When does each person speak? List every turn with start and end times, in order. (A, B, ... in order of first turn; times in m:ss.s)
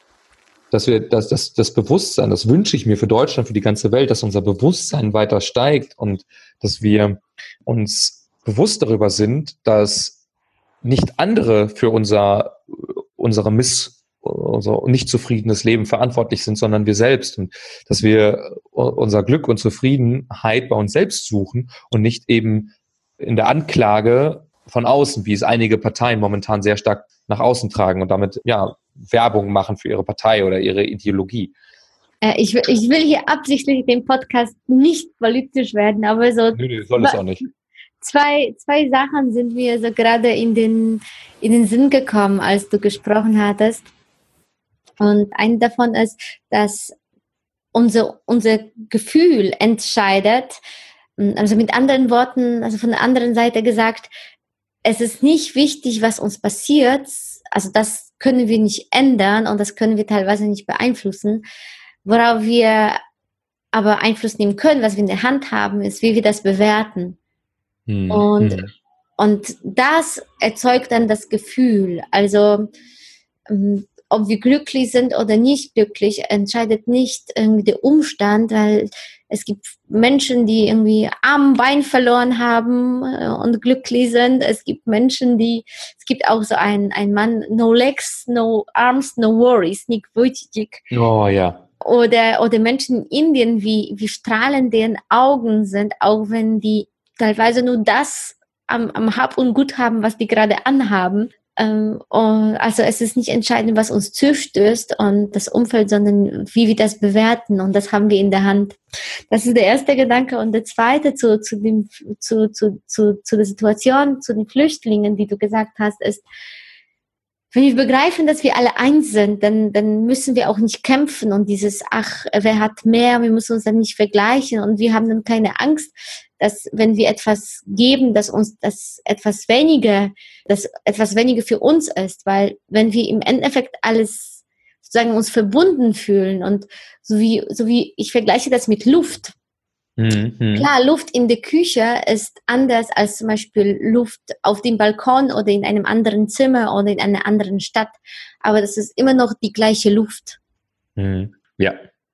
0:00.7-0:10.2 A
0:10.8-0:31.5 A
0:32.2-0:37.5 B
0:36.6-0:37.4 A
0:38.0-0:43.9 B
0:45.0-0:46.9 B
0:47.7-0:50.6 B
0:51.2-0:54.1 B
0:54.8-1:01.4 B
1:02.0-1:03.0 B
1:03.7-1:07.2 B
1:07.9-1:08.7 A
1:08.1-1:08.6 B
1:09.2-1:12.7 B
1:13.5-1:30.8 B
1:30.9-1:31.6 A
1:31.8-1:48.8 B
1:49.3-1:56.2 B
1:57.5-2:19.3 B
2:20.0-2:20.7 A
2:20.6-2:30.4 B
2:31.0-2:31.8 A